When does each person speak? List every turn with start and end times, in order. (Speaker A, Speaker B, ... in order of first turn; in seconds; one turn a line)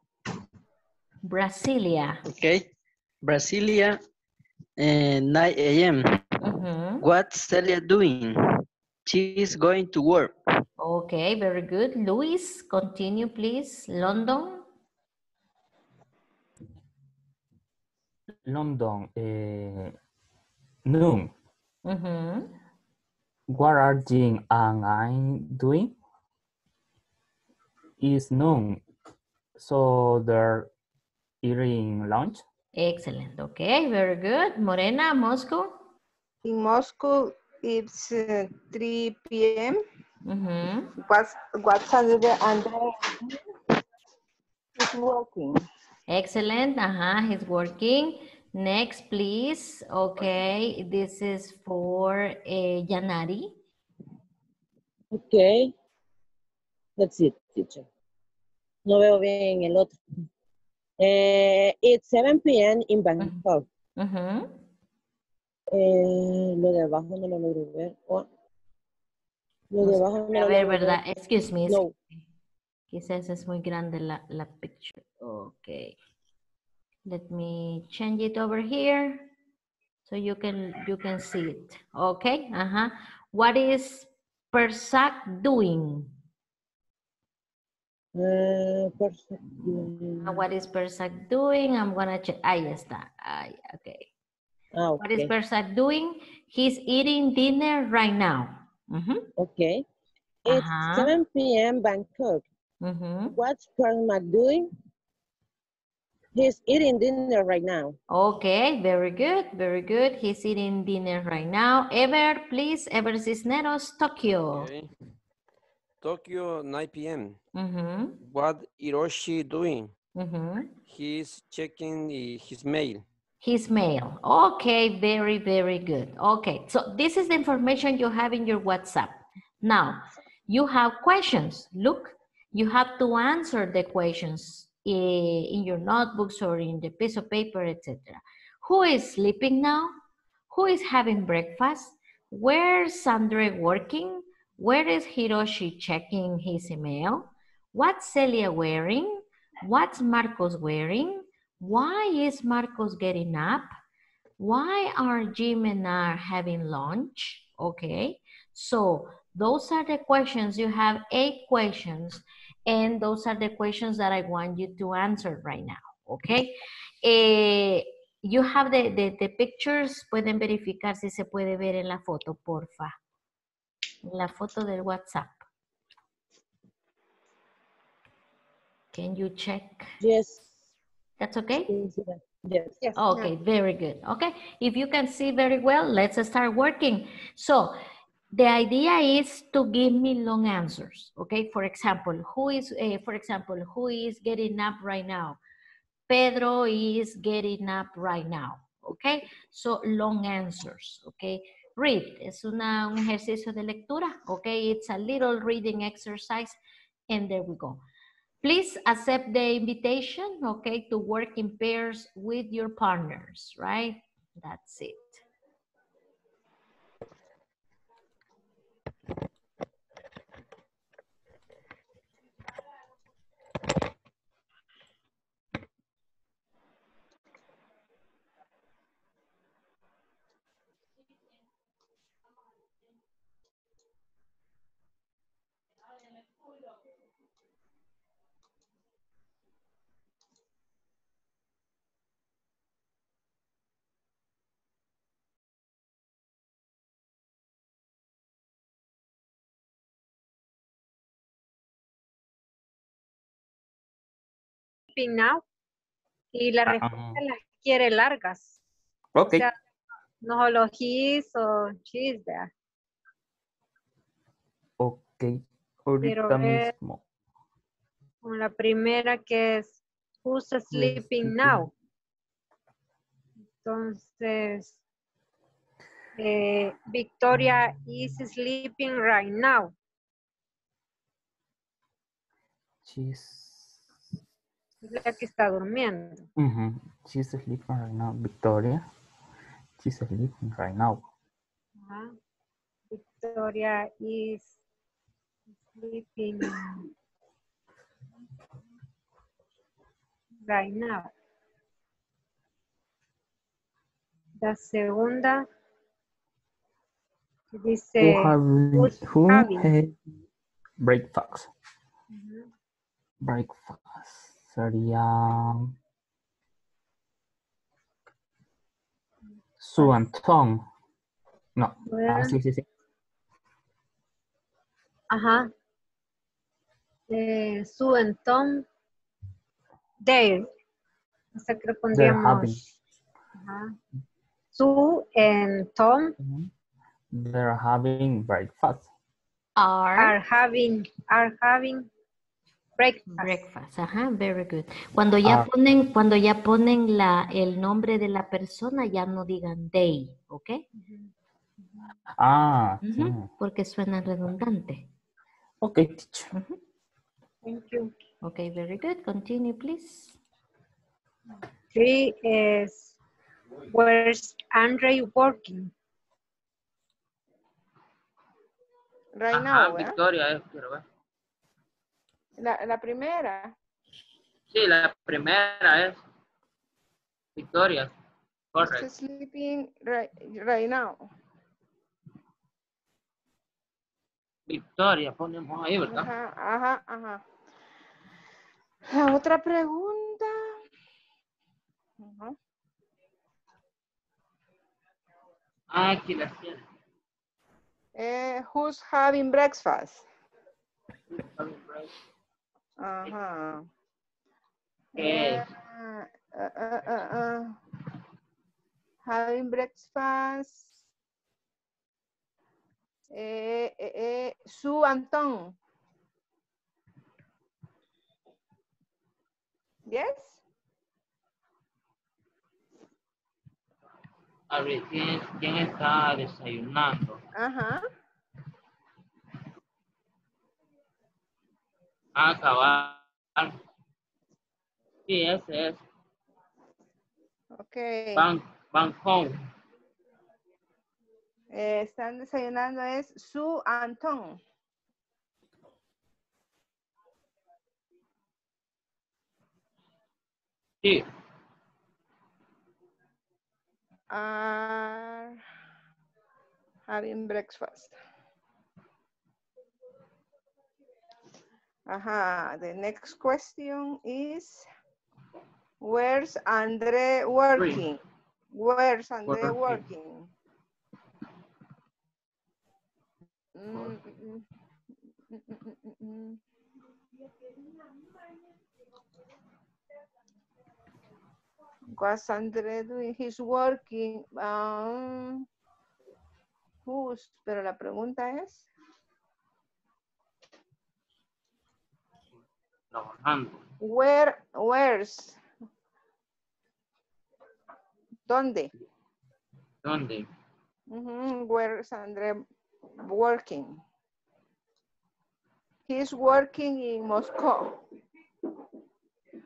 Speaker A: 1.2-2.2
Speaker B: 3.2-3.9
Speaker B: 4.8-6.0
Speaker A: 6.4-7.0
Speaker B: 7.0-8.3
Speaker B: 9.1-10.3
Speaker A: 10.8-14.6
Speaker C: 18.4-19.9
Speaker C: 20.9-21.3
Speaker A: 21.9-22.5
Speaker C: 23.5-25.9
Speaker C: 28.0-28.8
Speaker C: 29.6-30.7
Speaker C: 31.4-32.4
Speaker A: 32.8-35.7
Speaker D: 36.4-39.8
Speaker A: 40.2-40.9
Speaker D: 41.0-43.4
Speaker D: 44.8-45.6
Speaker A: 46.1-53.5
Speaker E: 55.1-55.7
Speaker E: 57.0-57.8
Speaker E: 58.9-60.0
Speaker E: 61.0-63.6
Speaker A: 64.0-64.5
Speaker E: 65.7-68.2
Speaker E: 69.7-71.0
Speaker A: 69.8-71.8
Speaker E: 71.7-71.9
Speaker A: 72.9-76.0
Speaker A: 77.0-79.3
Speaker A: 80.0-86.1
Speaker E: 88.1-90.4
Speaker A: 89.6-94.1
Speaker E: 94.7-95.3
Speaker A: 95.0-99.3
Speaker E: 99.4-99.8
Speaker E: 100.5-102.4
Speaker A: 100.5-101.1
Speaker A: 102.8-103.3
Speaker E: 103.3-104.7
Speaker E: 106.3-107.9
Speaker A: 108.1-114.7
Speaker F: 114.5-114.9
Speaker F: 116.0-117.4
Speaker A: 117.5-118.2
Speaker F: 118.2-119.9
Speaker A: 120.2-120.7
Speaker F: 120.8-123.0
Speaker A: 123.4-139.9
Speaker A: 140.5-153.7
Speaker A: 154.4-172.9
Speaker A: 174.0-175.4
Speaker A: 178.9-179.9
Speaker E: 180.0-180.4
Speaker A: 181.2-181.7
Speaker E: 181.7-182.8
Speaker G: 182.8-183.3
Speaker A: 182.9-187.8
Speaker A: 188.3-195.4
Speaker A: 196.1-206.6
Speaker A: 207.1-207.8
Speaker A: 208.4-215.2
Speaker G: 254.9-255.4
Speaker G: 256.3-258.6
Speaker C: 256.7-257.2
Speaker C: 259.1-259.5
Speaker G: 259.2-259.5
Speaker G: 260.2-262.5
Speaker C: 264.8-267.0
Speaker G: 266.0-266.7
Speaker G: 268.2-271.7
Speaker C: 270.7-271.7
Speaker G: 273.6-274.8
Speaker G: 276.2-279.7
Speaker C: 282.8-283.8
Speaker G: 284.8-286.2
Speaker C: 286.4-288.8
Speaker C: 289.8-291.0
Speaker G: 291.8-292.1
Speaker G: 292.9-294.6
Speaker G: 295.6-296.9
Speaker G: 300.4-301.1
Speaker G: 304.4-305.4
Speaker G: 307.5-309.7
Speaker C: 308.0-309.9
Speaker C: 310.8-311.5
Speaker G: 312.1-312.5
Speaker C: 313.2-315.7
Speaker C: 319.6-320.6
Speaker G: 319.8-320.1
Speaker C: 321.6-322.6
Speaker G: 321.8-322.4
Speaker G: 325.1-325.5
Speaker G: 327.1-328.6
Speaker G: 330.0-330.5
Speaker G: 331.3-332.6
Speaker C: 331.9-332.6
Speaker G: 333.4-333.7
Speaker G: 334.5-336.1
Speaker C: 336.2-336.5
Speaker C: 337.1-338.9
Speaker A: 339.6-340.1
Speaker G: 340.0-341.9
Speaker G: 342.8-343.4
Speaker A: 343.2-350.6
Speaker C: 345.2-345.5
Speaker G: 350.8-351.9
Speaker C: 352.2-353.3
Speaker A: 352.8-354.9
Speaker C: 355.6-356.3
Speaker A: 356.3-356.6
Speaker G: 357.4-357.9
Speaker A: 358.2-360.2
Speaker G: 361.7-362.9
Speaker G: 363.7-365.7
Speaker D: 369.2-369.9
Speaker H: 369.3-370.8
Speaker D: 372.4-373.5
Speaker H: 374.5-376.0
Speaker H: 377.4-377.9
Speaker H: 378.5-378.9
Speaker D: 378.6-381.0
Speaker H: 384.5-386.1
Speaker D: 385.9-387.2
Speaker D: 388.9-390.4
Speaker D: 392.0-392.3
Speaker H: 395.7-396.6
Speaker D: 398.0-400.0
Speaker H: 401.1-401.9
Speaker D: 402.8-403.6
Speaker D: 404.9-407.6
Speaker H: 404.9-405.5
Speaker D: 409.0-410.7
Speaker D: 413.1-415.5
Speaker D: 419.9-420.4
Speaker H: 424.5-427.2
Speaker D: 427.4-427.8
Speaker H: 432.1-433.5
Speaker H: 435.1-435.8
Speaker D: 437.6-438.3
Speaker H: 438.1-439.3
Speaker D: 441.5-444.4
Speaker D: 454.1-455.4
Speaker D: 456.9-457.9
Speaker D: 461.9-464.6
Speaker D: 465.8-468.0
Speaker H: 467.6-467.9
Speaker D: 468.5-470.3
Speaker H: 469.2-469.8
Speaker D: 473.6-474.4
Speaker D: 475.3-476.4
Speaker D: 482.0-485.4
Speaker D: 486.9-488.6
Speaker H: 492.9-493.6
Speaker D: 493.8-495.4
Speaker D: 498.3-498.7
Speaker H: 499.8-500.2
Speaker D: 500.9-502.4
Speaker D: 503.1-503.8
Speaker D: 505.9-507.8